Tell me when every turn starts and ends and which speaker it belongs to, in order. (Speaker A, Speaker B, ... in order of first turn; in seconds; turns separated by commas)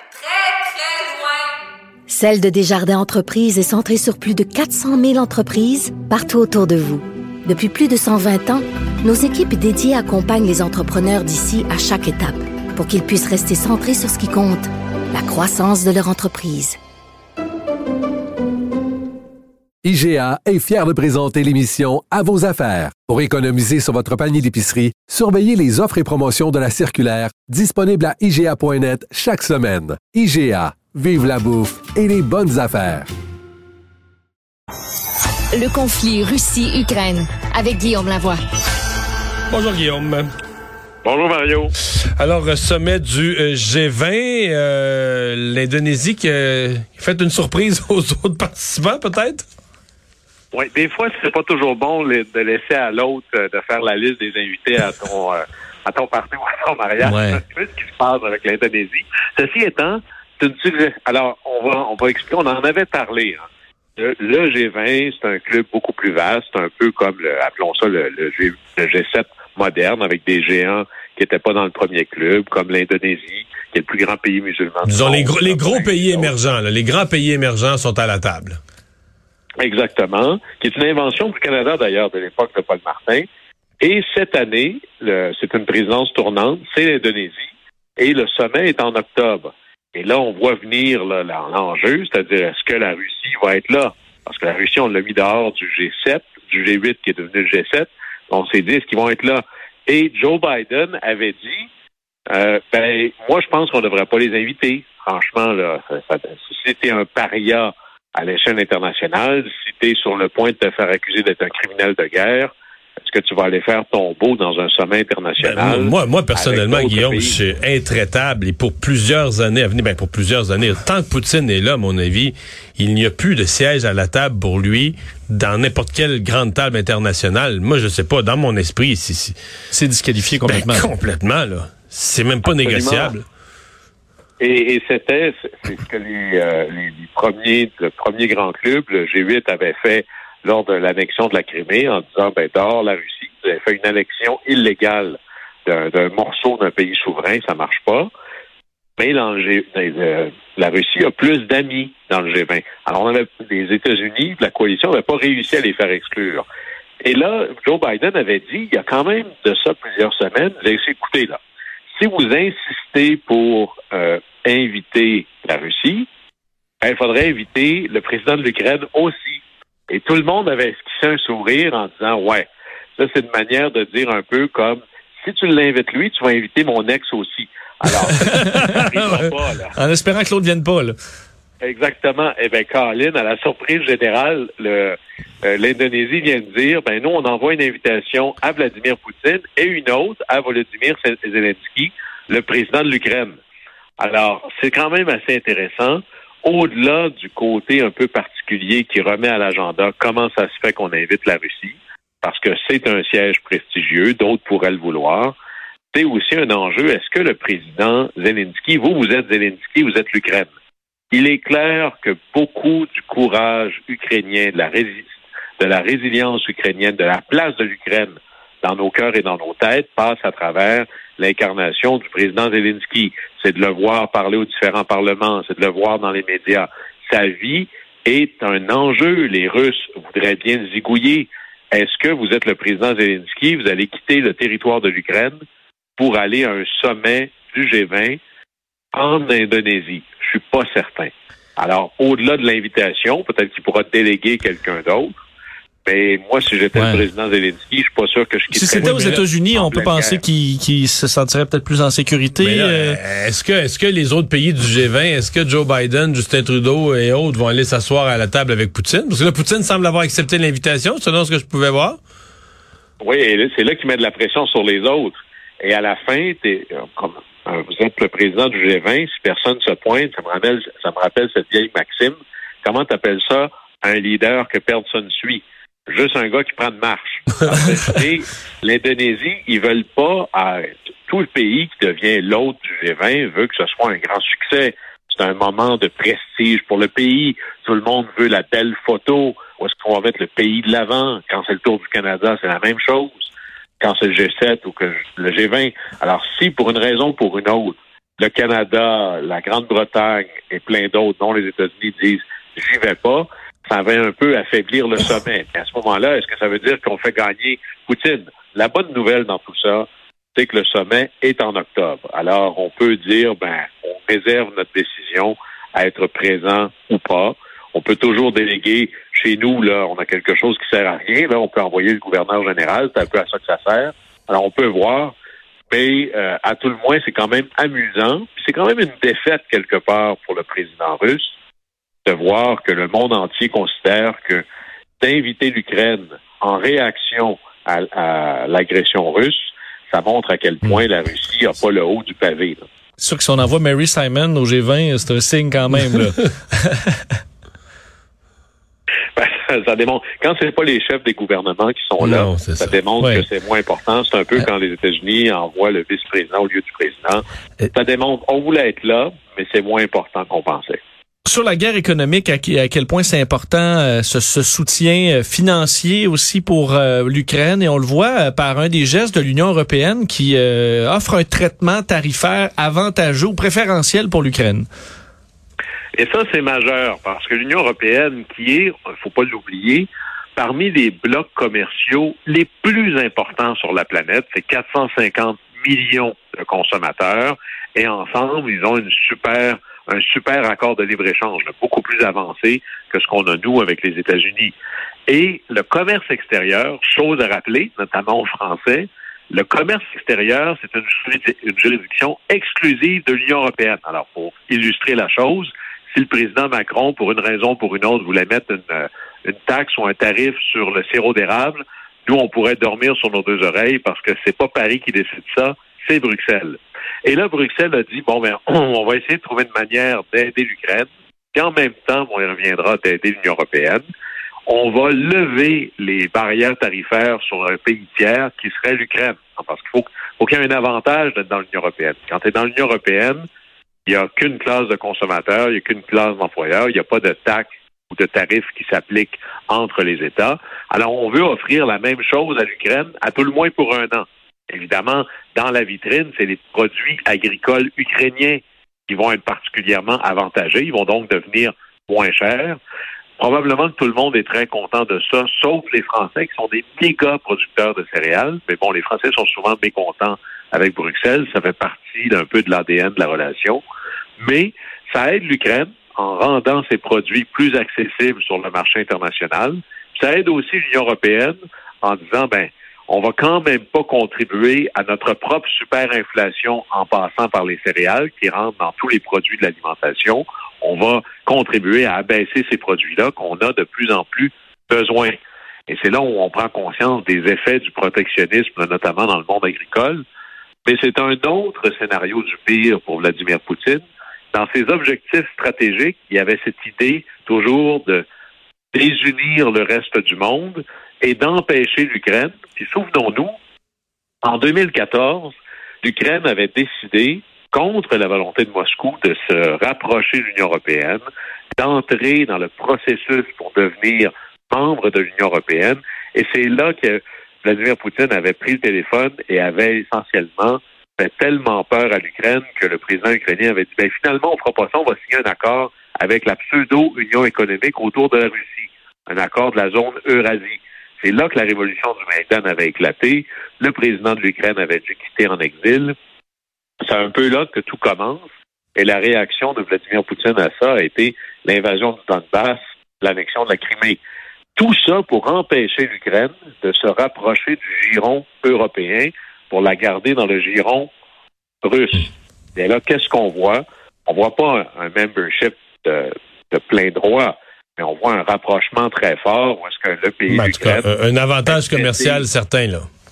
Speaker A: 2.1-16.8, Speaker B: 19.8-33.1, Speaker C: 35.5-38.4, Speaker A: 36.3-37.7, Speaker D: 39.5-40.3, Speaker E: 41.0-41.7, Speaker D: 42.2-49.5, Speaker E: 50.5-63.5, Speaker F: 57.0-57.4, Speaker E: 64.0-76.3, Speaker D: 74.8-78.6, Speaker E: 79.6-83.2, Speaker E: 83.8-101.7, Speaker E: 102.3-117.4, Speaker D: 115.4-129.4, Speaker F: 129.7-130.9, Speaker D: 130.4-133.2, Speaker E: 132.6-133.2, Speaker E: 134.4-148.1, Speaker E: 149.0-156.5, Speaker E: 157.0-161.4, Speaker E: 161.9-166.1, Speaker E: 166.8-179.8, Speaker F: 178.3-178.7, Speaker D: 178.6-179.3, Speaker F: 179.8-181.0, Speaker E: 181.6-193.4, Speaker E: 194.0-205.3, Speaker E: 205.9-210.5, Speaker E: 211.1-235.4, Speaker E: 236.0-238.2, Speaker E: 238.9-245.2, Speaker E: 245.8-250.2, Speaker F: 246.7-247.1, Speaker F: 248.5-253.0, Speaker D: 252.4-262.0, Speaker E: 263.0-325.2, Speaker E: 325.7-331.4, Speaker E: 332.1-334.4, Speaker E: 335.0-342.6, Speaker F: 343.0-346.9, Speaker E: 349.2-360.8, Speaker D: 352.0-352.8, Speaker F: 353.0-353.3, Speaker F: 361.3-374.7, Speaker E: 375.9-394.6, Speaker E: 395.1-423.8, Speaker E: 424.5-433.2, Speaker E: 433.9-452.6, Speaker E: 453.2-463.6, Speaker E: 464.2-485.2, Speaker E: 485.7-490.0, Speaker E: 490.6-498.1, Speaker E: 498.7-503.4, Speaker E: 504.2-511.0, Speaker E: 511.6-535.9, Speaker E: 536.8-544.0, Speaker E: 544.6-550.9, Speaker E: 551.6-560.9, Speaker D: 560.3-562.9, Speaker E: 561.5-562.3